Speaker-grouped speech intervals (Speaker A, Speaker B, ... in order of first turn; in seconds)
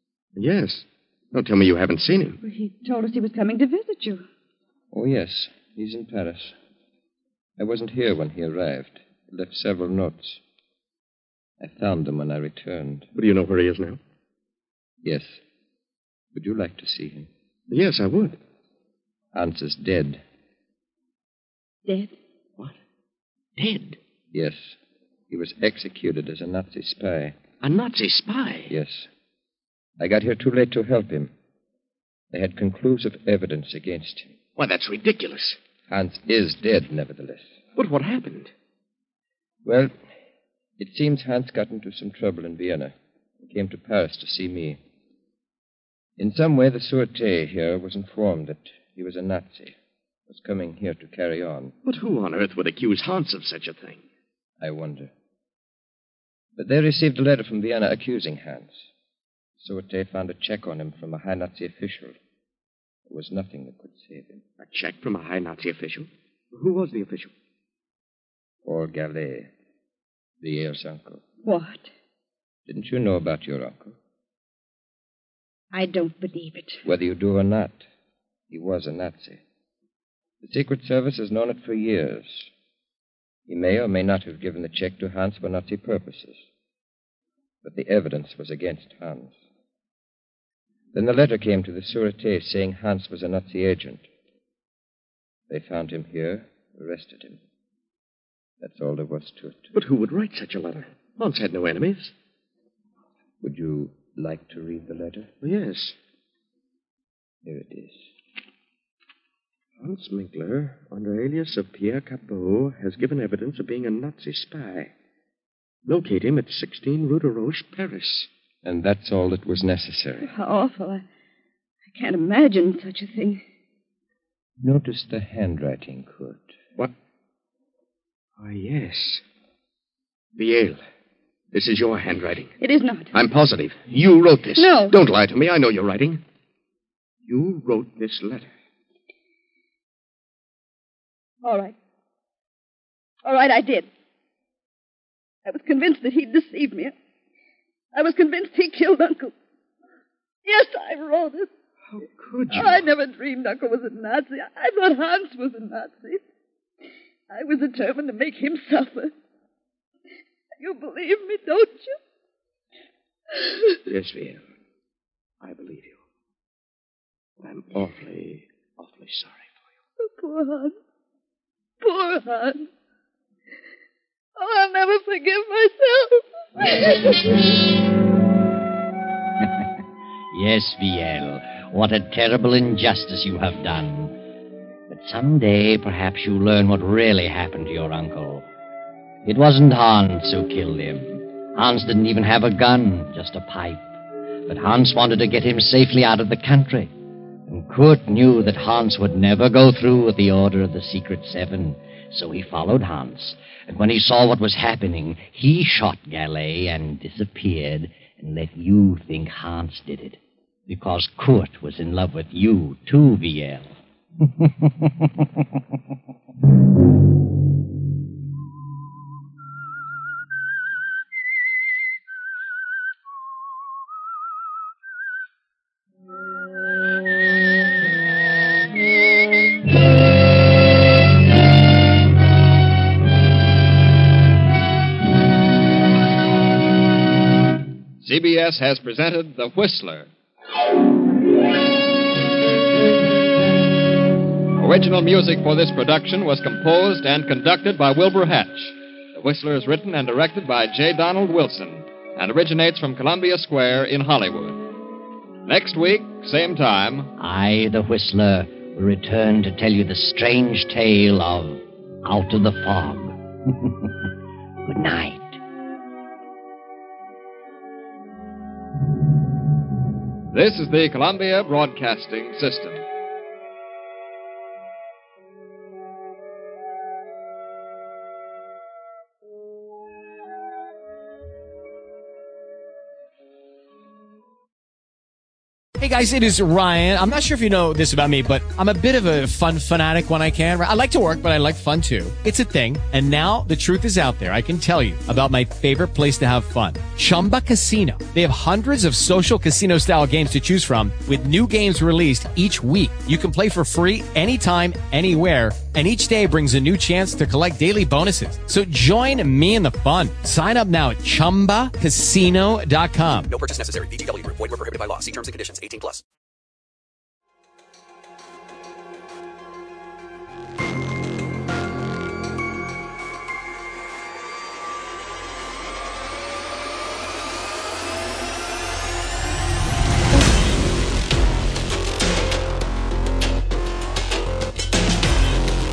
Speaker A: 0.4-2.4, 13.2-14.0, 17.7-18.4, 23.6-24.0, 27.6-28.7, 34.6-35.6, 37.8-38.5, 51.9-54.0, 64.6-67.3, 99.7-102.1, 105.4-106.0, 109.8-114.9, 115.9-118.3, 128.4-129.2, 130.4-130.8, 131.5-132.6, 133.1-136.2, 137.3-138.5, 151.9-152.9, 163.9-164.4, 165.4-166.0, 167.4-169.5
Speaker B: 2.4-4.2, 21.9-22.1, 71.5-71.9, 75.7-76.8, 120.2-121.0, 121.9-123.4, 132.6-133.1, 134.6-135.0, 141.4-141.8, 143.2-143.9, 145.4-146.9, 147.9-149.3, 150.4-151.5, 152.5-156.2, 157.3-159.1, 160.6-162.0, 170.0-170.7, 171.8-172.7, 174.4-177.5
Speaker C: 4.9-6.5, 7.6-10.4, 11.6-13.1, 15.0-15.4, 16.3-17.3, 19.3-20.2, 24.3-24.8, 25.3-27.4, 28.7-29.1, 30.0-31.3, 32.3-34.3, 35.9-37.5, 39.6-39.9, 40.8-42.9, 43.5-44.8, 46.2-49.8, 50.3-51.7, 54.6-55.1, 56.6-58.9, 59.6-62.2, 63.1-64.4, 68.7-69.5, 70.4-71.2, 72.7-74.0, 76.8-77.8, 78.5-79.4, 80.4-82.5, 83.5-86.5, 87.6-89.4, 90.9-94.1, 95.5-97.4, 98.6-99.8, 103.4-105.3, 107.4-108.1, 118.6-120.3, 124.6-126.5
Speaker D: 180.3-184.1, 184.9-188.5, 189.2-193.8, 194.5-196.9, 197.5-213.8, 257.2-263.9, 264.6-265.4
Speaker E: 238.0-240.1, 244.6-254.7, 255.4-257.1, 270.3-272.8
Speaker F: 285.8-313.3
Speaker G: 313.3-316.0